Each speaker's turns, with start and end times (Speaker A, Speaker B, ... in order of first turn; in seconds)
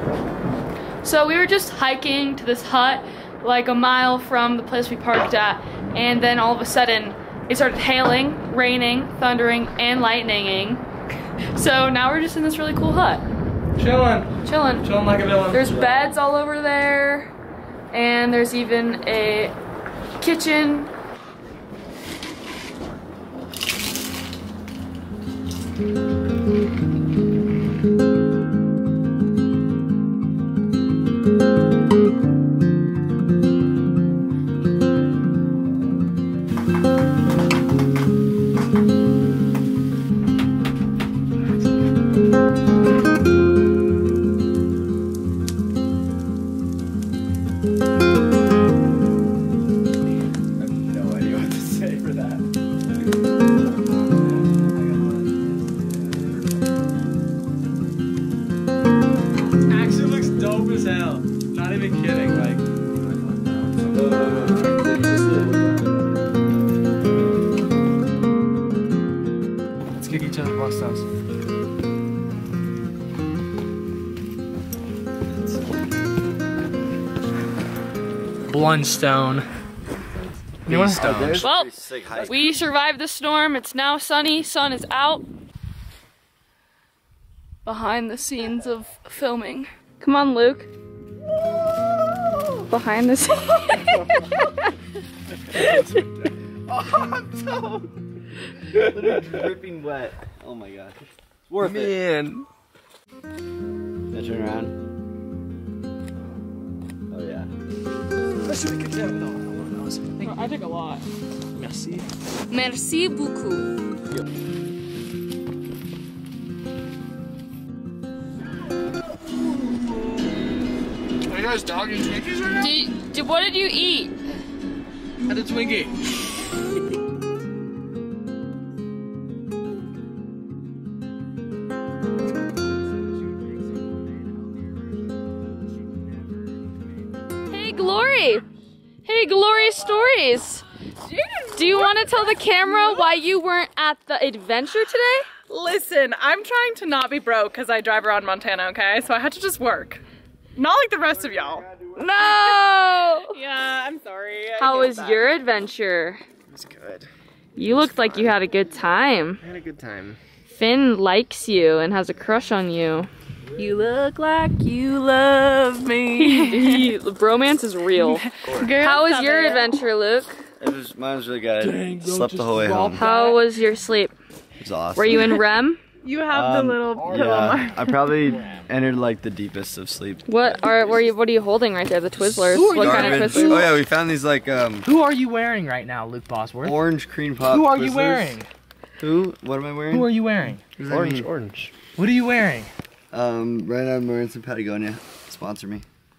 Speaker A: 1.0-10.8, 11.5-13.2, 14.4-14.9, 15.5-17.3, 17.9-19.6, 20.2-20.9, 81.4-85.2, 87.6-90.7, 92.6-94.5, 112.5-113.7, 122.5-124.1, 137.5-138.4, 139.0-140.6, 141.5-145.3, 151.9-153.4, 154.6-156.2, 157.6-159.4, 160.4-170.4, 172.9-174.1, 174.9-175.8, 180.2-183.8
Speaker B: 13.8-14.3, 14.8-15.8, 50.6-52.4, 59.7-62.6, 70.0-71.0, 78.5-79.5, 80.7-81.4, 108.4-110.5, 111.5-112.1, 121.3-122.7, 125.2-125.9, 182.5-183.6, 184.8-186.8, 187.4-188.5, 189.9-190.6, 191.7-192.7
Speaker C: 63.3-64.0, 64.8-65.3, 81.0-81.4, 101.6-102.5, 156.5-157.1, 157.7-158.0, 159.4-160.2, 190.9-191.7
Speaker D: 63.9-65.5, 80.7-82.5, 96.7-97.9, 98.7-101.0, 101.5-102.0, 104.1-104.7, 107.1-107.5, 170.6-173.0, 174.6-175.4, 176.3-180.3, 182.2-184.9, 186.6-188.4, 189.0-190.1, 190.8-191.3, 193.1-195.8
Speaker E: 110.2-111.1, 141.1-142.1, 145.5-150.0, 150.6-152.6, 153.3-155.2, 166.2-166.9, 168.0-169.6, 172.6-173.4, 176.0-178.1